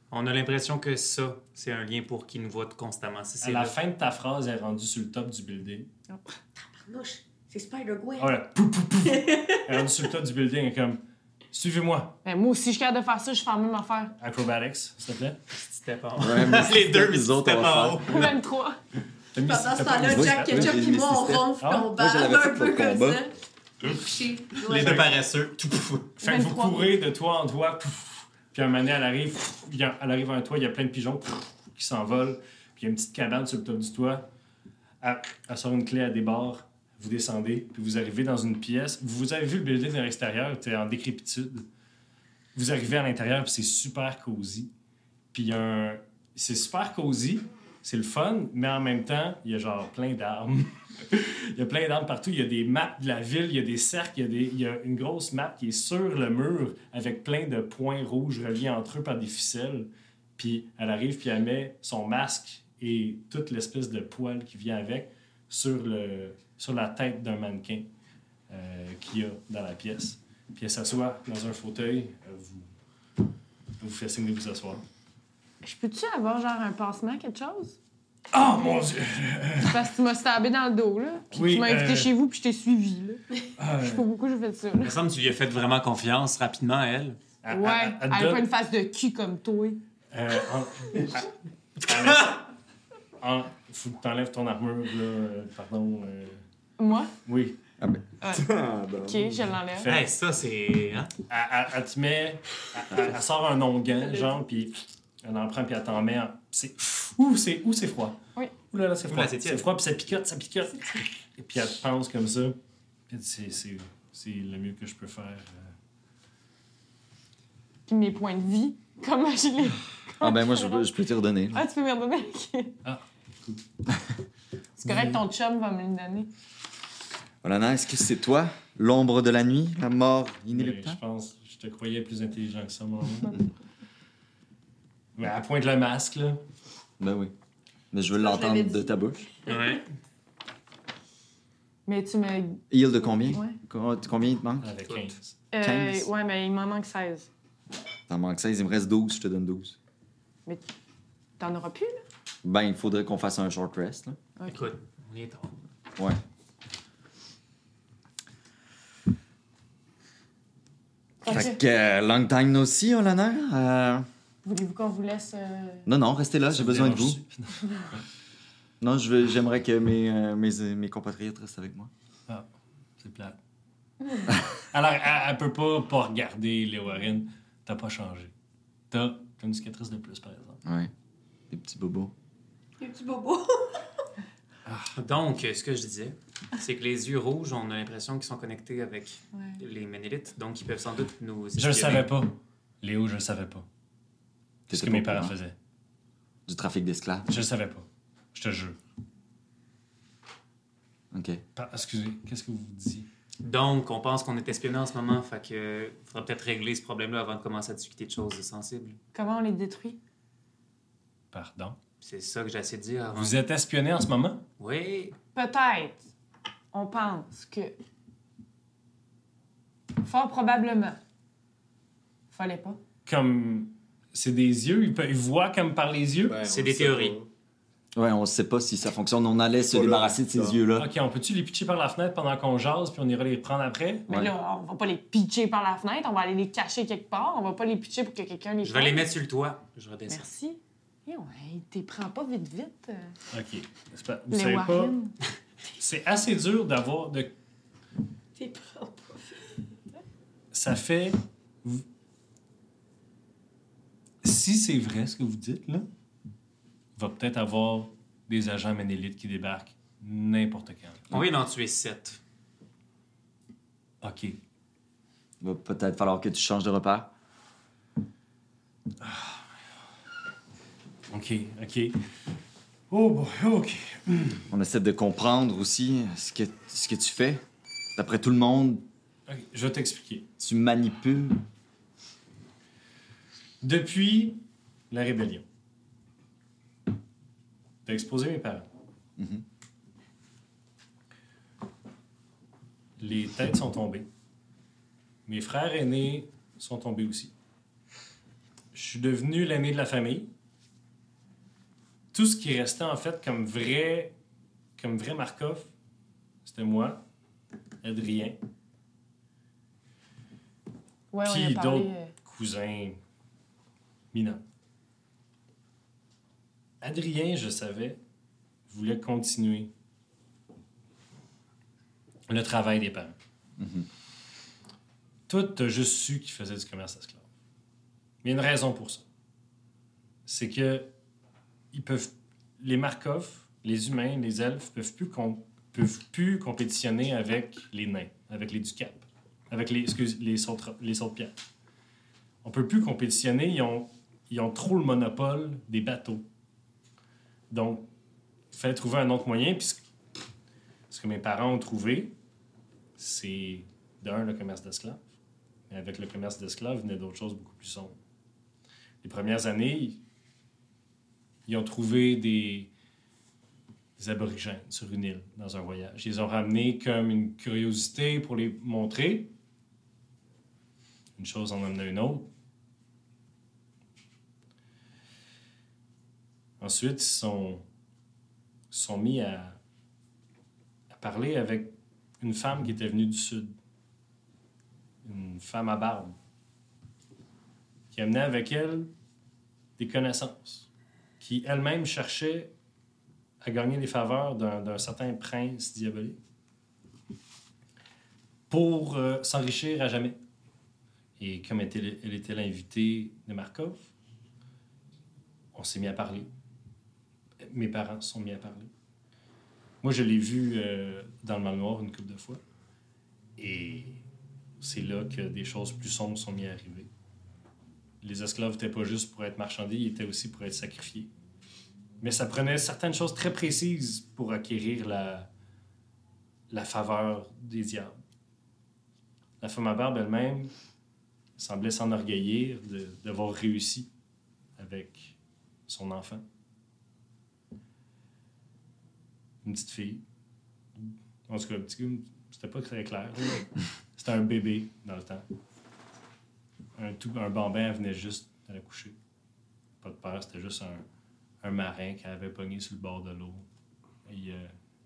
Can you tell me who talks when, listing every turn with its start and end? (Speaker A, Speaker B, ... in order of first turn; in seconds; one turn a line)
Speaker A: 0.1-3.7
Speaker B: 3.4-5.9
Speaker C: 6.8-8.4
Speaker B: 8.2-11.0
Speaker C: 9.0-9.9
Speaker B: 11.5-12.2
Speaker D: 12.2-14.1
Speaker B: 14.2-15.4
Speaker A: 15.6-18.3
Speaker E: 16.2-18.1
Speaker D: 18.1-18.8
Speaker B: 19.3-20.8
Speaker C: 19.4-25.1
Speaker E: 20.0-23.2
Speaker B: 21.6-21.9
Speaker A: 24.6-26.1
Speaker B: 26.2-34.2
Speaker D: 26.2-26.9
Speaker B: 35.0-41.7
Speaker B: 42.5-44.7
Speaker B: 45.3-67.9
Speaker B: 68.5-72.7
Speaker B: 73.8-74.8
Speaker D: 75.6-77.8
Speaker B: 78.3-79.8
Speaker D: 79.6-85.0
Speaker B: 81.3-82.1
Speaker B: 83.6-84.0
Speaker A: 84.8-87.2
Speaker B: 87.4-88.5
Speaker D: 87.5-89.8
Speaker B: 90.1-92.5
Speaker B: 93.2-96.4
Speaker D: 96.8-97.1
Speaker B: 97.2-97.6
Speaker F: 98.3-99.4
Speaker D: 99.0-100.0
Speaker B: 99.8-100.1
Speaker A: 99.9-101.1
Speaker B: 101.3-108.2
Speaker B: 108.7-112.5
Speaker A: 109.1-109.7
Speaker B: 113.1-115.7
Speaker D: 117.9-120.9
Speaker E: 120.2-121.6
Speaker D: 121.5-122.8
Speaker B: 122.8-123.6
Speaker D: 124.8-126.3
Speaker B: 124.8-125.2
Speaker E: 127.4-131.0
Speaker B: 130.5-133.4
Speaker B: 135.2-136.4
Speaker E: 137.0-137.3
Speaker E: 137.9-139.3
Speaker C: 138.1-139.8
Speaker A: 139.5-139.8
Speaker D: 141.8-143.6
Speaker E: 142.7-144.7
Speaker B: 144.6-145.3
Speaker D: 145.5-147.3
Speaker E: 145.6-146.1
Speaker E: 148.1-149.8
Speaker D: 151.4-152.0
Speaker E: 152.4-154.2
Speaker D: 154.4-154.7
Speaker A: 154.5-155.6
Speaker D: 161.2-161.6
Speaker E: 161.3-164.1
Speaker D: 164.4-165.9
Speaker E: 165.8-167.2
Speaker B: 166.5-167.6
Speaker E: 168.8-171.9
Speaker B: 173.0-173.4
Speaker B: 174.5-178.3
Speaker B: 178.9-180.6
Speaker E: 180.6-180.9
Speaker E: 181.5-182.1
Speaker C: 182.8-183.8
Speaker B: 184.7-184.9
Speaker A: 184.9-192.1
Speaker D: 189.3-189.6
Speaker B: 191.5-193.7
Speaker B: 194.7-195.5
Speaker E: 194.7-195.3
Speaker E: 196.5-197.3
Speaker B: 197.3-198.8
Speaker E: 201.1-201.4
Speaker B: 201.6-203.1
Speaker A: 203.4-209.0
Speaker D: 209.1-210.0
Speaker B: 211.3-211.8
Speaker A: 212.0-213.4
Speaker B: 213.1-214.4
Speaker A: 214.6-215.2
Speaker D: 215.3-216.0
Speaker D: 216.7-217.8
Speaker D: 220.0-221.0
Speaker D: 222.3-222.8
Speaker B: 223.1-226.4
Speaker F: 226.2-227.3
Speaker A: 226.4-227.2
Speaker E: 227.9-230.9
Speaker F: 229.6-230.6
Speaker B: 230.8-234.2
Speaker D: 234.1-239.1
Speaker A: 238.6-240.3
Speaker D: 240.1-243.1
Speaker B: 243.3-245.0
Speaker D: 244.3-245.1
Speaker B: 245.8-247.3
Speaker C: 248.3-249.4
Speaker B: 250.5-251.8
Speaker B: 254.2-255.9
Speaker B: 256.9-261.1
Speaker A: 261.1-262.2
Speaker B: 264.0-264.4
Speaker E: 265.4-267.1
Speaker B: 269.0-269.4
Speaker B: 271.1-272.0
Speaker B: 272.9-274.4
Speaker E: 274.5-277.4
Speaker E: 277.9-278.8
Speaker B: 279.3-280.3
Speaker E: 280.4-281.4
Speaker B: 283.6-285.4
Speaker B: 287.8-288.7
Speaker E: 289.2-289.4
Speaker B: 293.0-294.1
Speaker B: 295.2-297.3
Speaker B: 298.7-300.3
Speaker B: 302.1-304.1
Speaker B: 304.8-305.7
Speaker B: 306.4-307.0
Speaker B: 307.8-308.4
Speaker D: 311.1-312.1
Speaker B: 311.2-313.0
Speaker B: 314.1-314.4
Speaker B: 316.8-318.0
Speaker B: 318.7-319.7
Speaker B: 322.3-323.1
Speaker E: 323.6-323.9
Speaker B: 325.3-327.2
Speaker B: 328.2-329.0
Speaker B: 330.2-330.9
Speaker B: 331.7-341.3
Speaker B: 342.4-346.2
Speaker B: 347.5-347.9
Speaker B: 348.5-349.9
Speaker B: 350.9-352.1
Speaker B: 353.0-355.0
Speaker B: 355.7-358.0
Speaker B: 359.0-360.0
Speaker B: 361.5-362.7
Speaker B: 364.0-369.3
Speaker B: 371.2-372.3
Speaker B: 376.6-377.6
Speaker B: 378.7-379.6
Speaker B: 380.9-383.5
Speaker B: 385.0-386.1
Speaker B: 387.9-388.9
Speaker B: 389.8-390.7
Speaker B: 391.2-392.5
Speaker B: 393.4-396.2
Speaker B: 398.5-400.2
Speaker B: 401.2-403.9
Speaker B: 405.5-406.3
Speaker B: 407.4-408.7
Speaker B: 409.8-412.4
Speaker B: 413.4-414.0
Speaker B: 414.6-416.9
Speaker B: 418.0-421.1
Speaker B: 422.0-425.3
Speaker B: 426.5-427.9
Speaker B: 429.4-430.5
Speaker B: 431.4-433.9
Speaker B: 434.6-435.1
Speaker B: 435.7-436.2
Speaker B: 439.4-440.0
Speaker B: 440.8-445.2
Speaker B: 446.8-448.9
Speaker B: 449.8-450.8
Speaker B: 451.4-453.4
Speaker B: 454.0-454.5